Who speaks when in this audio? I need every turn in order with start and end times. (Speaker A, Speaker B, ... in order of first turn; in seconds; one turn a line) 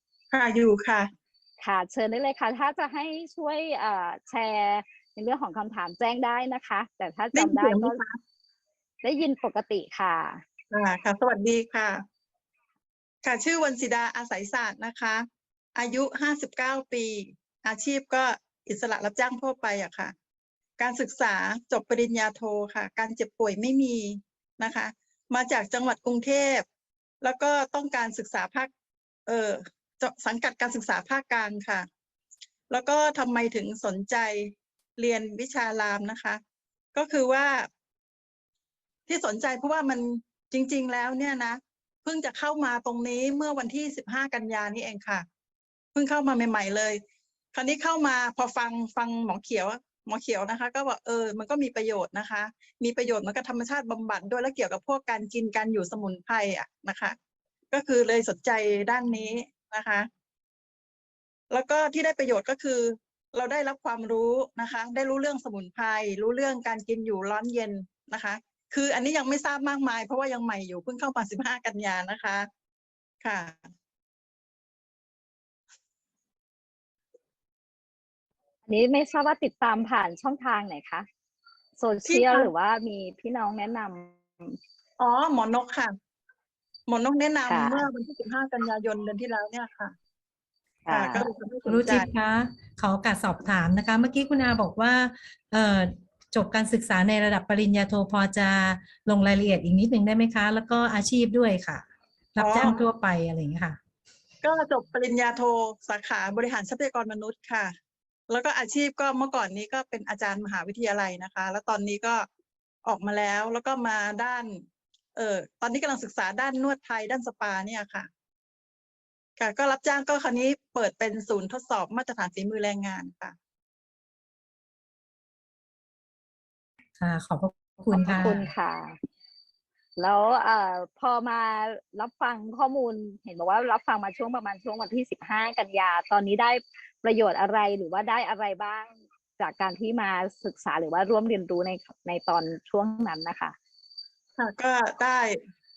Speaker A: 0.3-1.1
Speaker B: 1.6-8.0
Speaker A: 7.3-8.2
Speaker B: 9.0-10.4
Speaker A: 10.7-12.0
Speaker A: 13.2-20.1
Speaker A: 20.8-26.7
Speaker A: 27.2-28.7
Speaker A: 29.3-31.9
Speaker A: 32.7-36.4
Speaker A: 36.9-37.7
Speaker A: 39.1-45.3
Speaker A: 45.9-47.0
Speaker A: 47.5-57.2
Speaker A: 57.7-60.1
Speaker A: 61.5-72.5
Speaker A: 73.2-73.7
Speaker B: 78.7-81.1
Speaker B: 81.8-84.6
Speaker A: 82.1-82.5
Speaker A: 85.0-85.9
Speaker A: 86.9-89.9
Speaker B: 87.5-87.9
Speaker B: 90.8-91.3
Speaker A: 90.9-92.1
Speaker C: 91.7-103.8
Speaker A: 102.4-102.8
Speaker A: 104.4-107.7
Speaker A: 108.3-112.3
Speaker A: 112.8-114.6
Speaker A: 115.2-118.1
Speaker A: 119.4-123.3
Speaker C: 127.0-128.5
Speaker B: 127.9-129.0
Speaker B: 130.0-143.6
Speaker A: 144.4-145.4